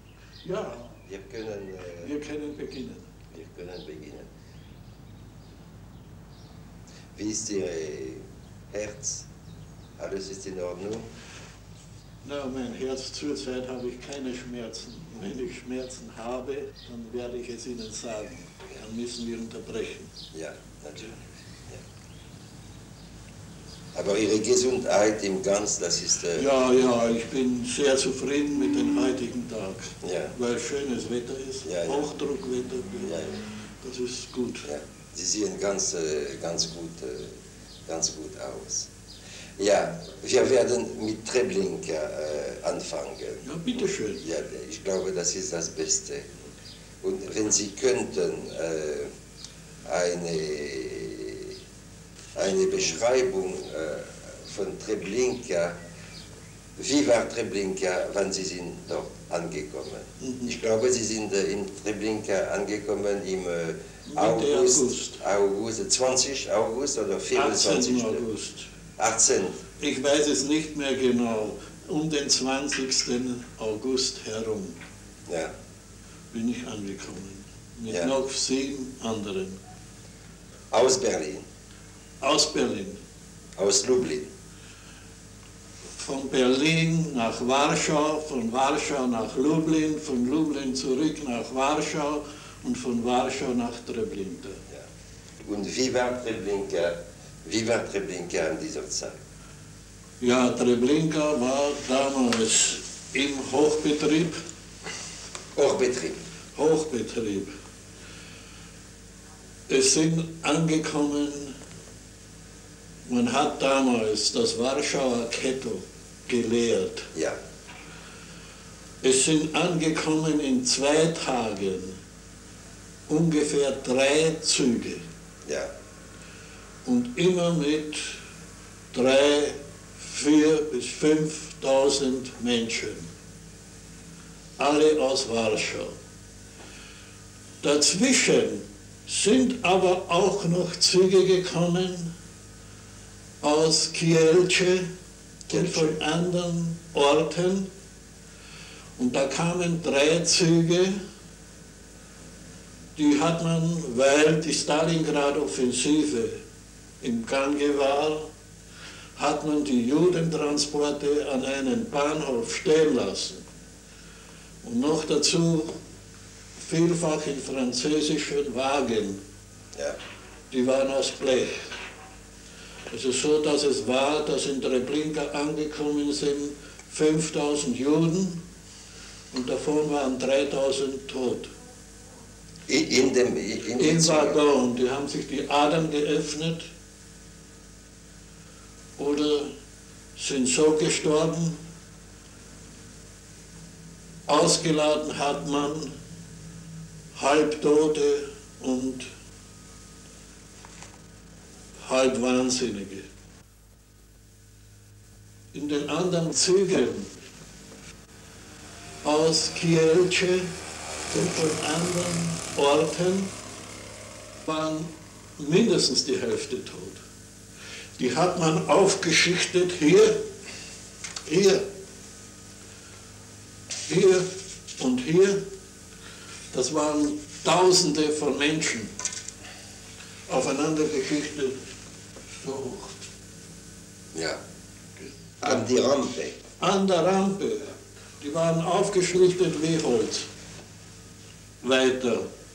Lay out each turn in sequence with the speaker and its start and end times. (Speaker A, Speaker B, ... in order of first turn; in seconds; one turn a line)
Speaker A: 0.4-0.9
Speaker B: 1.1-2.1
Speaker A: 2.0-3.0
Speaker B: 3.3-4.3
Speaker B: 7.1-9.3
Speaker B: 10.0-11.1
Speaker A: 12.2-20.1
Speaker B: 20.3-21.8
Speaker B: 23.9-26.5
Speaker A: 26.4-33.2
Speaker B: 30.0-30.3
Speaker B: 31.6-32.1
Speaker B: 33.0-33.4
Speaker A: 33.8-34.7
Speaker B: 34.6-37.4
Speaker B: 37.9-38.9
Speaker B: 39.6-43.6
Speaker A: 43.4-44.2
Speaker B: 44.2-46.3
Speaker B: 47.0-49.1
Speaker B: 49.9-51.6
Speaker B: 52.3-55.8
Speaker B: 56.8-68.2
Speaker A: 60.2-60.5
Speaker A: 64.1-65.2
Speaker A: 67.3-68.7
Speaker B: 69.0-69.6
Speaker A: 69.8-74.8
Speaker B: 75.3-75.5
Speaker A: 76.3-79.6
Speaker B: 80.7-81.4
Speaker A: 82.2-83.0
Speaker B: 83.6-84.3
Speaker A: 86.0-94.6
Speaker B: 95.4-99.2
Speaker A: 100.2-104.4
Speaker B: 105.5-106.2
Speaker A: 106.5-107.5
Speaker A: 109.7-111.5
Speaker A: 113.1-117.1
Speaker A: 119.0-122.0
Speaker A: 123.1-125.0
Speaker A: 126.8-128.1
Speaker A: 128.9-133.1
Speaker A: 134.6-135.9
Speaker A: 137.6-142.1
Speaker A: 143.4-144.9
Speaker B: 145.5-146.0
Speaker A: 145.5-147.7
Speaker A: 149.0-151.0
Speaker A: 152.9-156.4
Speaker A: 157.0-158.3
Speaker A: 159.1-163.4
Speaker A: 164.6-165.7
Speaker A: 166.6-169.2
Speaker A: 170.5-171.7
Speaker A: 172.9-178.4
Speaker A: 179.3-181.5
Speaker B: 182.7-184.4
Speaker A: 183.8-186.7
Speaker A: 189.0-189.5
Speaker A: 190.2-191.6
Speaker A: 194.3-195.9
Speaker A: 197.1-199.1
Speaker A: 201.8-203.1
Speaker A: 205.5-207.1
Speaker A: 209.0-210.5
Speaker A: 211.1-213.3
Speaker A: 214.4-217.0
Speaker A: 218.0-220.2
Speaker A: 221.2-221.6
Speaker A: 223.9-225.4
Speaker A: 226.5-228.9
Speaker A: 230.3-231.6
Speaker A: 232.3-232.9
Speaker B: 235.4-236.4
Speaker A: 236.6-240.3
Speaker A: 241.6-242.3